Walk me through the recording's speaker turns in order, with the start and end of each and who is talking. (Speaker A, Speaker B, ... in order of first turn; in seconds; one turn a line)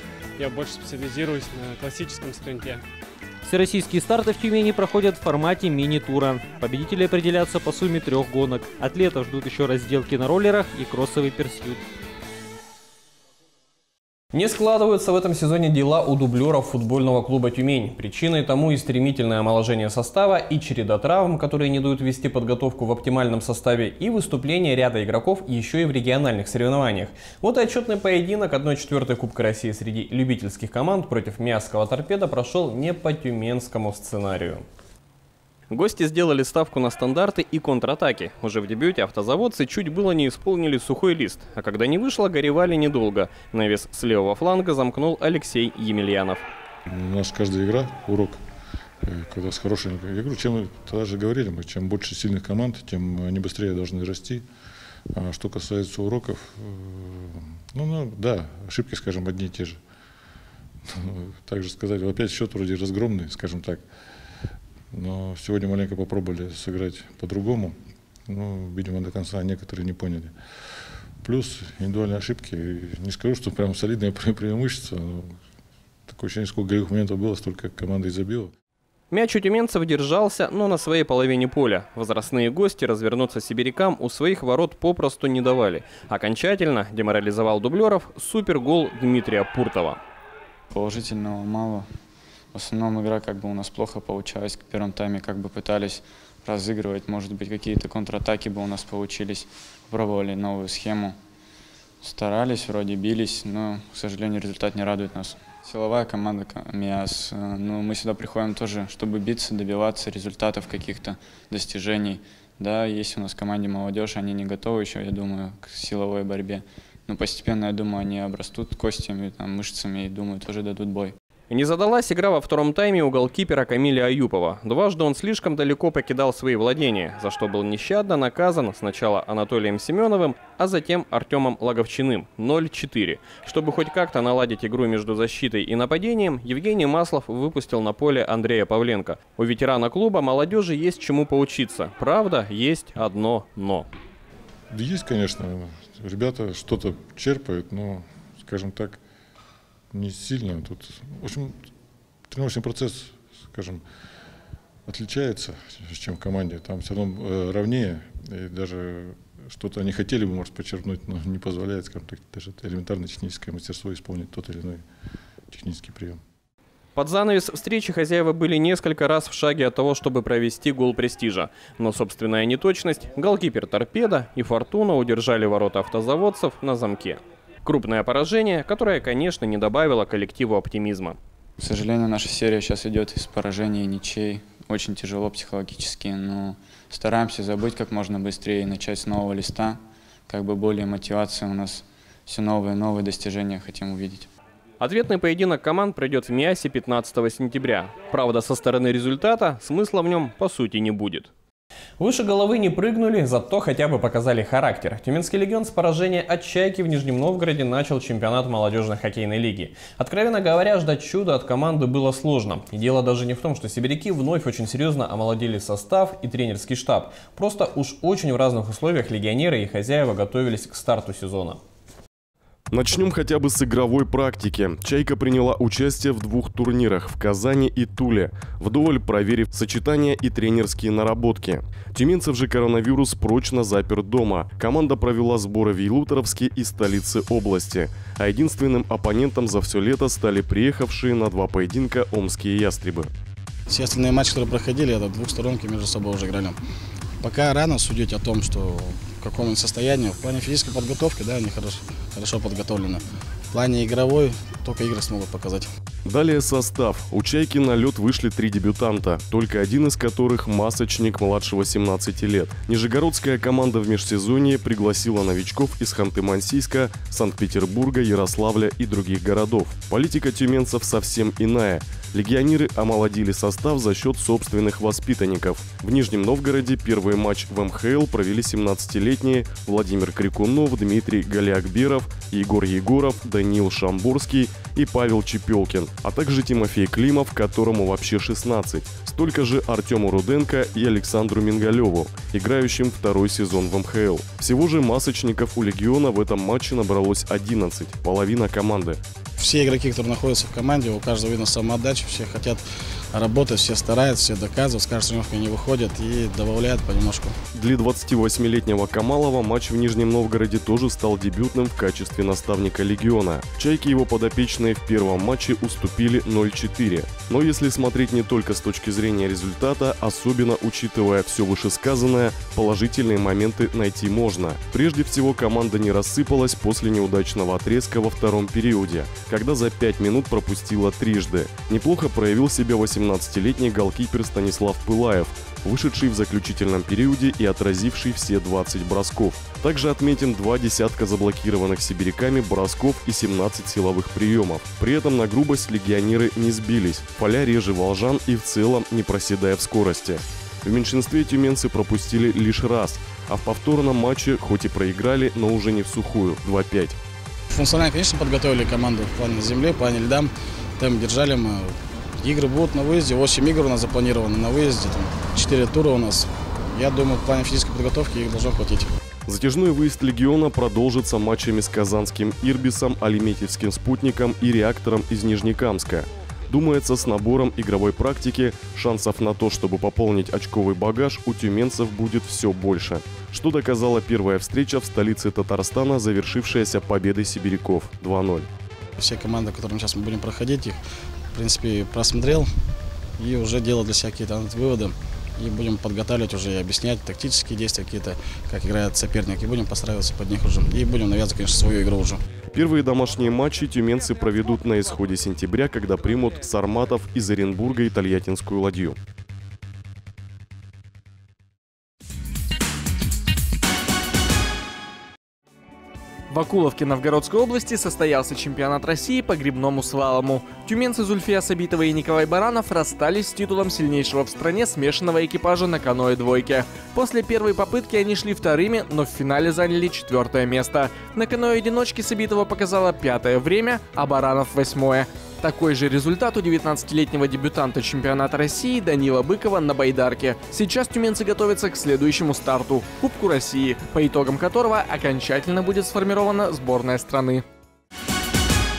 Speaker A: 0.4-2.8
Speaker B: 3.4-11.8
Speaker C: 14.3-34.6
Speaker C: 35.7-46.4
Speaker D: 46.9-48.4
Speaker D: 49.0-54.4
Speaker D: 55.1-59.8
Speaker D: 60.9-63.8
Speaker D: 64.9-67.8
Speaker D: 68.3-70.3
Speaker D: 71.2-75.3
Speaker D: 76.1-78.5
Speaker C: 79.1-90.0
Speaker E: 90.7-91.9
Speaker E: 92.5-101.2
Speaker E: 102.0-121.1
Speaker C: 121.5-143.8
Speaker D: 144.7-149.0
Speaker D: 149.9-151.7
Speaker D: 152.3-153.8
Speaker D: 154.8-164.8
Speaker D: 165.5-166.2
Speaker C: 166.9-181.2
Speaker E: 181.6-194.3
Speaker C: 194.8-201.3
Speaker C: 202.0-221.6
Speaker F: 222.7-243.1
Speaker G: 243.7-246.6
Speaker G: 247.2-255.7
Speaker F: 256.0-299.0
Speaker G: 299.4-307.3
Speaker F: 307.5-357.0
Speaker G: 357.5-368.9
Speaker F: 369.2-388.5
Speaker G: 389.0-390.8
Speaker G: 391.3-392.5
Speaker G: 393.2-402.2
Speaker F: 402.5-409.0
Speaker H: 416.3-447.4